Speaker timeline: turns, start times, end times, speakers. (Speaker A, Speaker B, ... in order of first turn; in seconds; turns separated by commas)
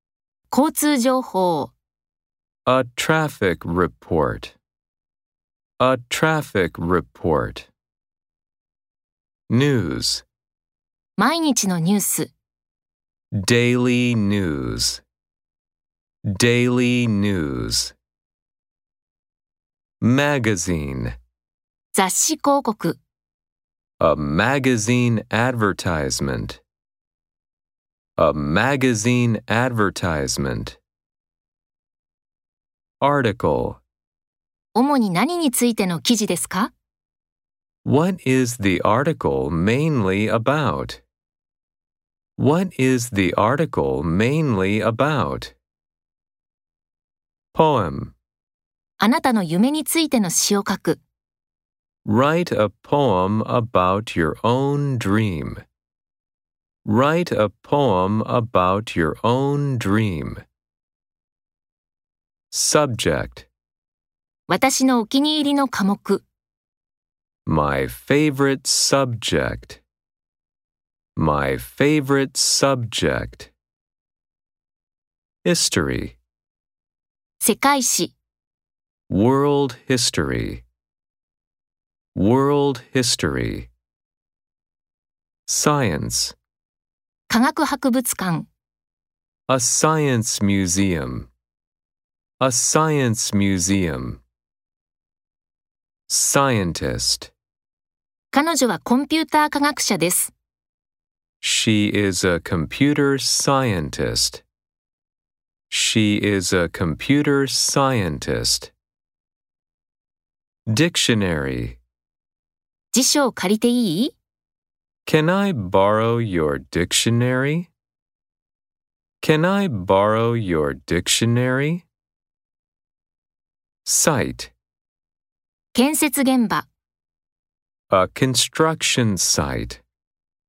Speaker A: 0.5-1.7, Speaker B: 2.6-4.5, Speaker B: 5.8-7.7, Speaker B: 9.5-10.2, Speaker A: 11.2-12.3, Speaker B: 13.3-15.0, Speaker B: 16.2-17.9, Speaker B: 20.0-21.1, Speaker A: 21.9-23.0, Speaker B: 24.0-26.6, Speaker B: 28.2-30.8, Speaker B: 33.0-33.8, Speaker A: 34.7-36.7, Speaker B: 37.8-41.0, Speaker B: 42.4-45.5, Speaker B: 47.5-48.1, Speaker A: 49.0-51.0, Speaker B: 52.0-55.6, Speaker B: 56.8-60.4, Speaker B: 62.5-63.5, Speaker A: 64.5-66.2, Speaker B: 67.5-69.8, Speaker B: 71.2-73.5, Speaker B: 75.4-76.2, Speaker A: 77.4-78.1, Speaker B: 79.1-80.6, Speaker B: 82.1-83.7, Speaker B: 85.5-86.3, Speaker A: 87.3-88.5, Speaker B: 89.5-91.3, Speaker B: 92.4-94.2, Speaker B: 96.1-97.3, Speaker A: 98.3-100.3, Speaker B: 101.4-104.4, Speaker B: 105.7-108.7, Speaker B: 110.7-111.8, Speaker A: 112.9-114.1, Speaker B: 115.0-117.7, Speaker B: 119.2-121.8, Speaker B: 123.8-124.5, Speaker A: 125.7-126.7, Speaker B: 127.9-129.8